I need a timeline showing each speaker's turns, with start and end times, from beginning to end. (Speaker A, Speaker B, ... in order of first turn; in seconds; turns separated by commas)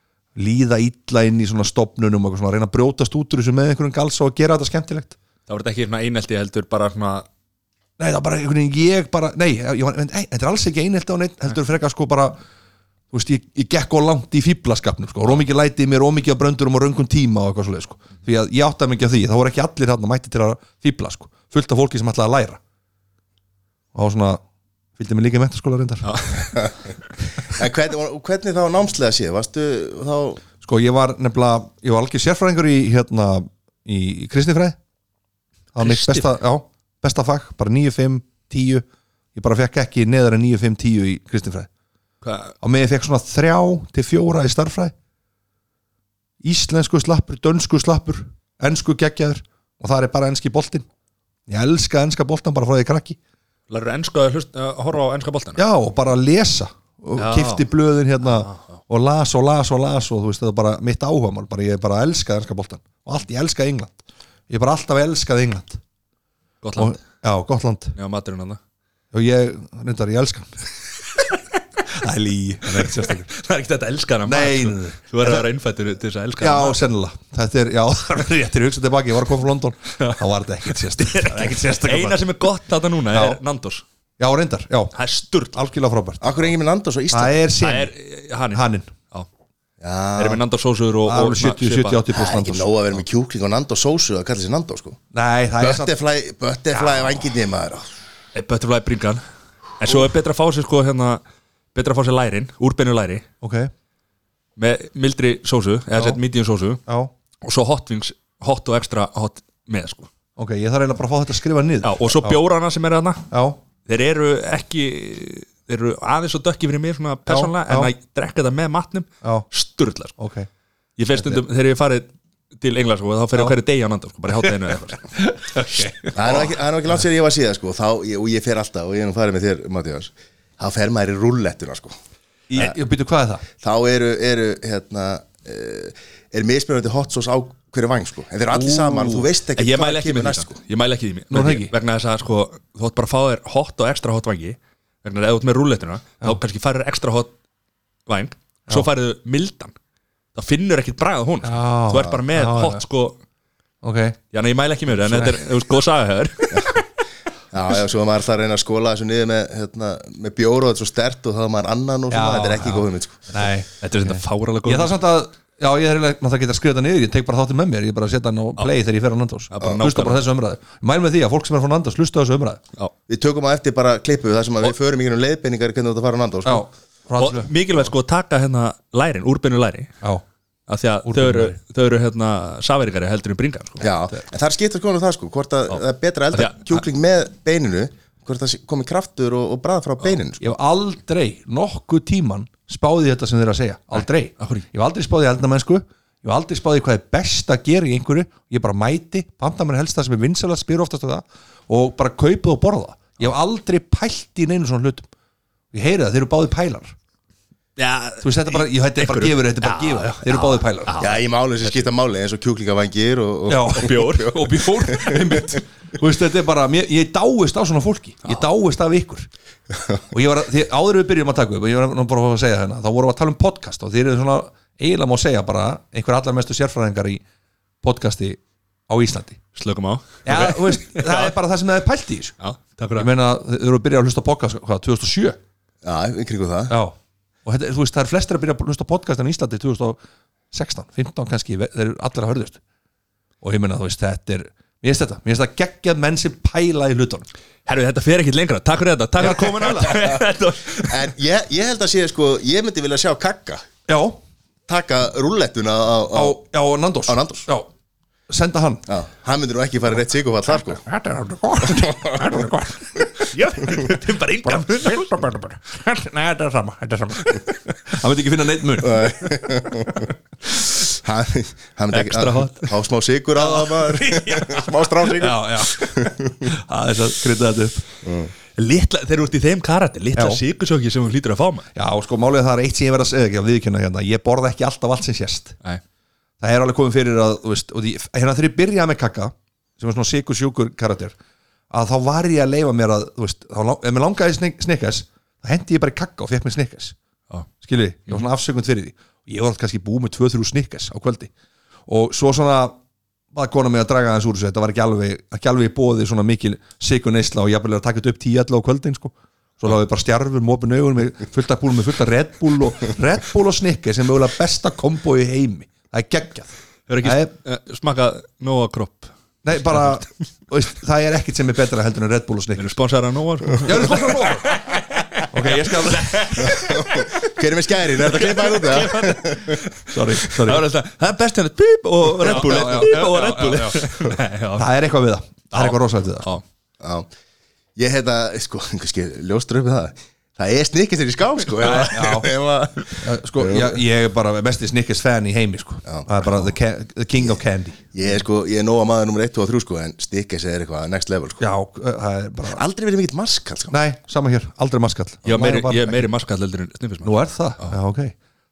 Speaker A: 0.3-5.2, Speaker B: 5.5-7.3, Speaker A: 8.0-12.4, Speaker A: 13.1-22.6, Speaker A: 23.9-24.4, Speaker A: 25.0-26.1, Speaker B: 26.0-26.7, Speaker C: 27.4-30.4, Speaker A: 30.6-34.8, Speaker A: 35.7-41.7, Speaker B: 35.8-36.4, Speaker B: 42.2-42.5, Speaker A: 42.6-44.9, Speaker A: 46.4-50.9, Speaker A: 51.5-53.2, Speaker B: 53.7-55.6, Speaker A: 55.6-65.8, Speaker B: 57.1-57.6, Speaker B: 58.2-58.8, Speaker B: 66.6-67.0, Speaker A: 66.8-67.9, Speaker B: 68.0-68.6, Speaker A: 69.1-70.6, Speaker A: 71.9-73.3, Speaker B: 73.2-76.8, Speaker A: 74.2-75.4, Speaker A: 76.4-82.3, Speaker B: 80.9-83.8, Speaker A: 83.1-83.4, Speaker A: 84.2-84.9, Speaker B: 84.9-85.6, Speaker A: 85.5-86.4, Speaker C: 86.2-87.4, Speaker A: 87.1-87.9, Speaker B: 87.6-89.3, Speaker A: 88.5-88.9, Speaker C: 89.8-90.4, Speaker B: 90.2-92.0, Speaker A: 91.0-92.7, Speaker C: 92.1-95.0, Speaker A: 95.1-95.9, Speaker C: 95.6-97.8, Speaker A: 96.7-97.1, Speaker B: 98.3-99.2, Speaker B: 99.8-101.2, Speaker B: 101.7-103.2, Speaker A: 103.4-103.7, Speaker B: 104.6-106.8, Speaker A: 105.9-106.2, Speaker A: 106.9-107.1, Speaker B: 107.4-110.1, Speaker A: 110.4-112.4, Speaker B: 111.8-113.2, Speaker A: 113.3-113.6, Speaker B: 113.8-120.2, Speaker A: 117.3-117.9, Speaker A: 119.2-119.5, Speaker A: 120.2-120.5, Speaker B: 121.0-125.1, Speaker A: 125.1-126.5, Speaker B: 125.8-126.1, Speaker C: 126.1-131.9, Speaker A: 132.5-133.4, Speaker C: 133.6-140.6, Speaker A: 138.5-139.3, Speaker B: 139.6-147.3, Speaker A: 141.3-141.7, Speaker B: 148.1-149.7, Speaker B: 150.3-153.2, Speaker A: 151.4-152.8, Speaker A: 153.8-154.2, Speaker B: 154.3-156.8, Speaker A: 154.9-155.4, Speaker C: 156.5-156.8, Speaker C: 157.5-163.3, Speaker A: 162.1-172.6, Speaker B: 163.8-165.0, Speaker B: 169.5-170.2, Speaker C: 173.1-176.7, Speaker A: 176.4-177.5, Speaker B: 177.2-179.9, Speaker B: 180.7-183.8, Speaker A: 181.0-181.6, Speaker C: 183.8-190.5, Speaker A: 190.4-205.1, Speaker B: 194.0-194.7, Speaker A: 205.7-206.9, Speaker B: 207.8-211.8, Speaker A: 208.2-211.0, Speaker C: 211.0-215.2, Speaker A: 213.5-219.3, Speaker B: 213.7-214.4, Speaker A: 220.1-227.2, Speaker A: 227.8-229.4, Speaker B: 229.5-231.3, Speaker A: 230.2-232.3, Speaker B: 232.4-233.1, Speaker A: 232.9-235.4, Speaker C: 235.8-236.8, Speaker A: 236.7-240.0, Speaker A: 240.5-242.6, Speaker A: 243.4-247.3, Speaker B: 247.7-251.0, Speaker A: 249.2-250.0, Speaker C: 250.8-253.6, Speaker A: 253.9-254.2, Speaker C: 254.7-256.4, Speaker A: 256.1-257.7, Speaker C: 257.1-257.5, Speaker A: 258.3-258.9, Speaker C: 258.9-260.8, Speaker A: 260.9-263.0, Speaker C: 261.7-262.4, Speaker B: 263.2-265.1, Speaker A: 264.4-269.4, Speaker C: 268.8-270.1, Speaker C: 270.9-276.4, Speaker B: 271.9-272.6, Speaker A: 273.4-274.4, Speaker A: 275.1-277.8, Speaker C: 278.0-278.3, Speaker B: 278.6-281.7, Speaker A: 280.1-280.4, Speaker A: 281.7-285.6, Speaker A: 286.4-291.1, Speaker A: 291.7-296.9, Speaker A: 297.6-301.3, Speaker A: 301.9-302.8, Speaker A: 303.3-316.5, Speaker B: 316.9-319.1, Speaker A: 317.0-317.3, Speaker A: 319.4-322.6, Speaker B: 322.6-327.1, Speaker A: 323.6-324.6, Speaker A: 325.3-326.6, Speaker C: 326.5-329.6, Speaker B: 328.0-334.7, Speaker A: 329.9-330.6, Speaker A: 332.2-333.8, Speaker A: 334.6-336.3, Speaker B: 335.5-336.4, Speaker C: 336.8-337.1, Speaker C: 337.8-343.8, Speaker A: 341.6-342.3, Speaker A: 343.0-347.9, Speaker C: 345.8-346.4, Speaker C: 347.9-351.4, Speaker A: 351.4-352.6, Speaker C: 352.5-353.8, Speaker A: 353.7-356.1, Speaker B: 355.2-357.8, Speaker A: 357.0-358.1